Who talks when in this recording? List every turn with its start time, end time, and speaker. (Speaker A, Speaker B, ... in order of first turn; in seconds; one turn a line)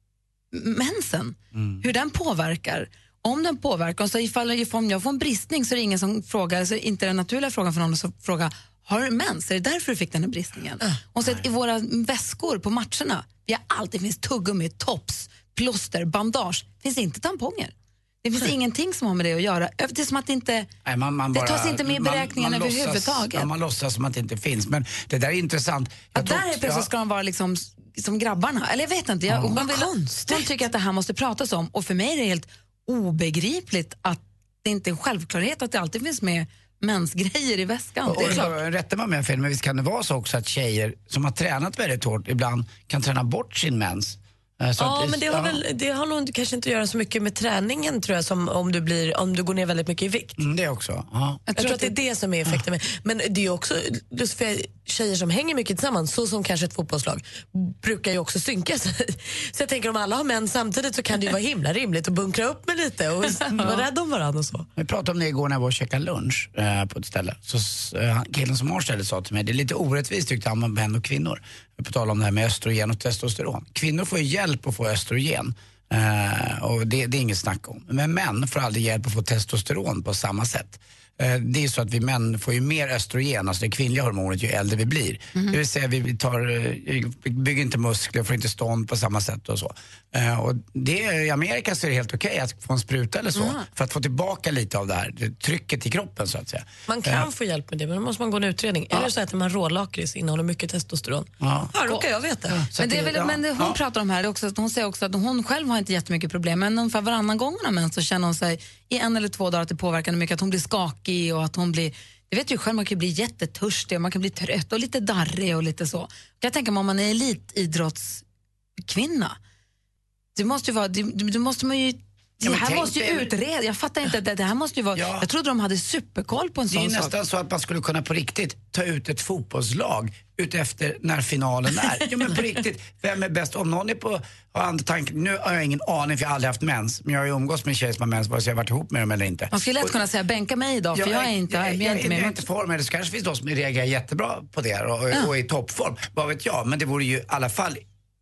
Speaker A: 0.5-17.7
Speaker B: 1.5-1.8
Speaker A: 18.2-20.7
Speaker B: 20.9-26.9
Speaker A: 21.3-23.5
Speaker A: 26.1-38.5
Speaker B: 29.3-29.6
Speaker C: 29.5-30.4
Speaker B: 38.1-45.6
Speaker C: 38.1-38.4
Speaker C: 44.8-50.4
Speaker B: 50.4-51.4
Speaker A: 51.5-51.9
Speaker C: 51.6-64.7
Speaker B: 64.8-97.3
Speaker C: 96.9-102.6
Speaker B: 101.4-101.7
Speaker B: 102.5-103.8
Speaker A: 102.8-118.2
Speaker A: 118.8-119.4
Speaker A: 120.4-127.1
Speaker B: 122.4-123.3
Speaker B: 125.0-125.3
Speaker B: 126.7-139.9
Speaker A: 139.5-142.4
Speaker B: 140.9-147.8